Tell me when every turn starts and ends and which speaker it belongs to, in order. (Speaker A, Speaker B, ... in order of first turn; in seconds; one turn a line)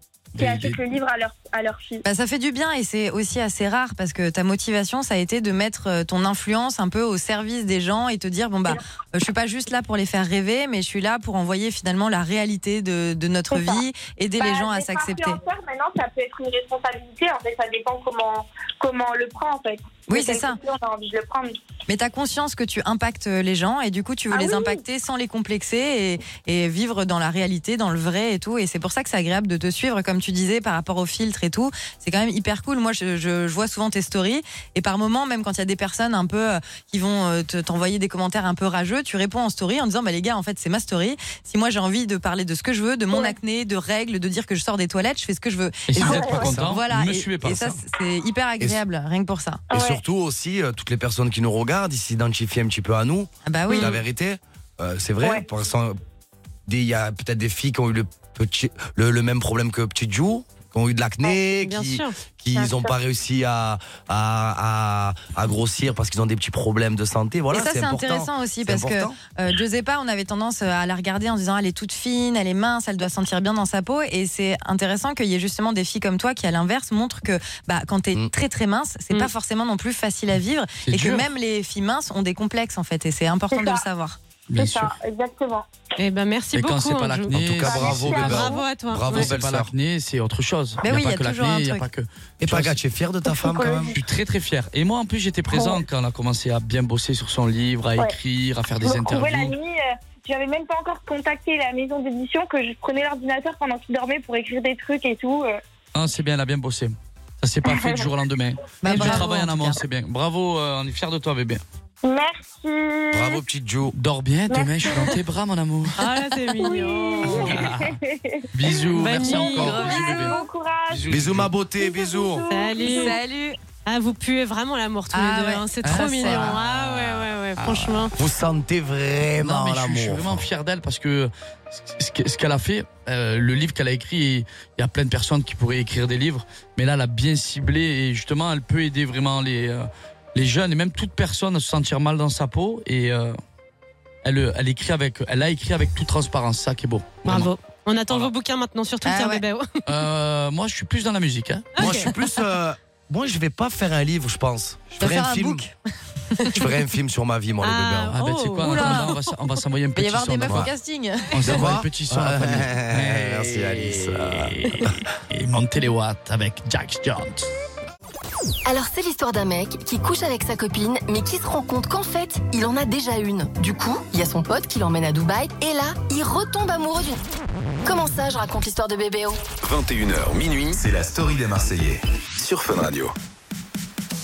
Speaker A: 0.3-0.8
Speaker B: 0.4-2.0
Speaker C: 2.0-15.4
Speaker B: 14.3-21.6
Speaker C: 20.1-20.6
Speaker C: 21.9-49.6
Speaker B: 24.3-24.8
Speaker B: 43.1-43.4
Speaker A: 45.9-47.8
Speaker D: 45.9-46.8
Speaker D: 49.7-56.0
Speaker C: 53.5-53.9
Speaker B: 55.2-55.5
Speaker D: 56.7-69.2
Speaker E: 61.6-62.1
Speaker B: 62.5-62.9
Speaker C: 67.5-84.2
Speaker A: 80.8-81.3
Speaker B: 83.5-83.8
Speaker A: 84.5-84.9
Speaker B: 84.5-85.7
Speaker E: 86.0-89.3
Speaker A: 86.5-88.6
Speaker D: 87.3-89.7
Speaker B: 87.6-88.4
Speaker A: 89.1-92.8
Speaker C: 90.8-91.8
Speaker D: 92.4-94.0
Speaker B: 93.2-94.0
Speaker A: 93.9-99.5
Speaker B: 95.5-95.8
Speaker B: 98.8-105.6
Speaker A: 105.9-111.6
Speaker B: 107.7-108.0
Speaker C: 108.8-109.8
Speaker B: 112.0-113.4
Speaker D: 113.1-113.9
Speaker A: 113.9-116.0
Speaker B: 114.5-115.2
Speaker E: 116.0-117.7
Speaker B: 116.6-121.0
Speaker A: 117.3-118.0
Speaker A: 118.5-121.5
Speaker E: 119.0-119.9
Speaker C: 119.1-120.4
Speaker D: 121.1-122.5
Speaker B: 121.8-123.1
Speaker E: 122.5-123.2
Speaker C: 122.8-123.5
Speaker E: 123.8-128.1
Speaker C: 125.1-126.5
Speaker A: 125.8-128.1
Speaker D: 128.2-130.4
Speaker A: 129.4-143.4
Speaker A: 144.2-147.5
Speaker E: 147.2-149.8
Speaker C: 149.0-149.4
Speaker A: 149.8-151.7
Speaker E: 151.8-152.1
Speaker D: 151.8-155.6
Speaker C: 155.0-155.7
Speaker D: 156.5-158.1
Speaker E: 157.6-159.3
Speaker A: 158.1-160.7
Speaker C: 158.6-159.1
Speaker C: 159.9-161.4
Speaker A: 161.3-167.5
Speaker D: 161.4-164.9
Speaker F: 168.7-177.2
Speaker F: 177.8-179.4
Speaker G: 179.6-183.1